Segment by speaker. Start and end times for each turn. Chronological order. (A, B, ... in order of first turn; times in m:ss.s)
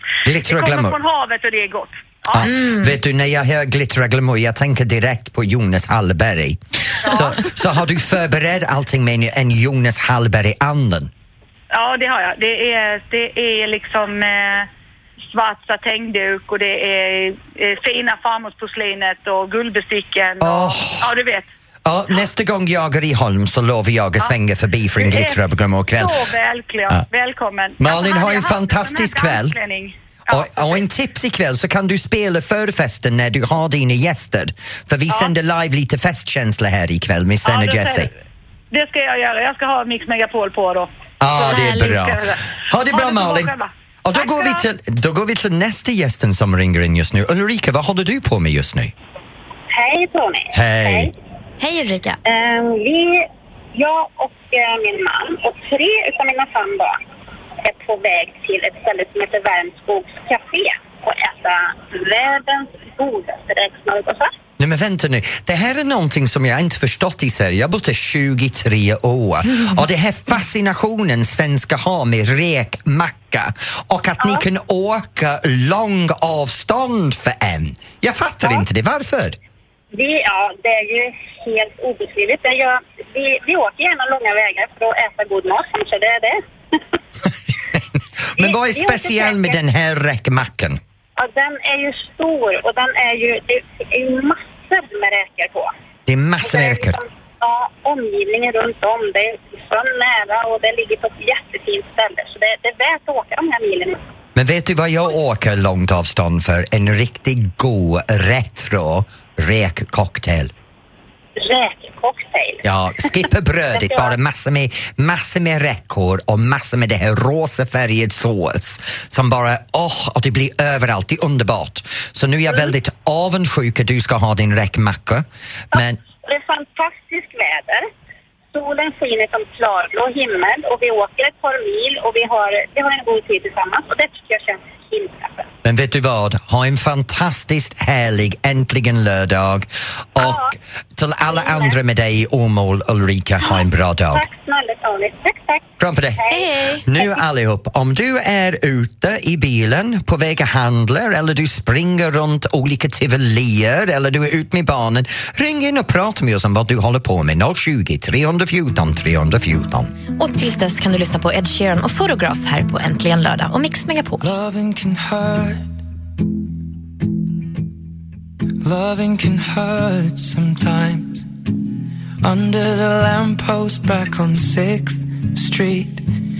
0:00.2-0:01.0 A
0:00.4-0:02.5 B
0:02.3-0:11.1 A
0:02.4-0:03.0 C
0:07.1-0:07.3 B
0:11.7-0:14.7 B
0:15.3-0:21.5 B
0:20.4-0:21.1 A
0:21.8-0:26.3 A
0:25.0-0:25.4 B
0:26.0-0:30.8 B
0:27.8-0:29.6 A
0:30.3-0:38.1 A
0:37.4-0:38.1 B
0:38.7-0:40.9 B
0:41.2-0:43.5 A
0:41.4-0:44.6 B
0:41.4-0:42.0 C
0:44.0-0:48.9 A
0:49.7-0:51.1 D
0:50.5-0:51.1 A
0:51.6-0:52.2 C
0:52.2-0:53.2 D
0:53.8-0:57.0 D
0:57.6-1:04.3 D
1:04.6-1:19.4 A
1:19.9-1:27.0 D
1:28.4-1:30.8 A
1:28.4-1:29.6 D
1:31.2-1:35.7 D
1:36.0-1:37.0 A
1:36.4-1:44.0 D
1:44.3-1:50.5 A
1:51.4-1:53.0 D
1:52.6-2:06.0 A
1:53.7-1:54.1 D
2:05.7-2:07.9 D
2:08.5-2:15.5 D
2:15.6-2:24.2 A
2:20.2-2:20.5 D
2:21.3-2:21.8 D
2:23.4-2:27.1 D
2:25.8-2:26.2 A
2:26.3-2:26.9 C
2:26.8-2:39.9 A
2:40.2-2:44.2 C
2:44.2-2:45.7 E
2:48.6-2:51.2 E
2:52.2-2:56.0 E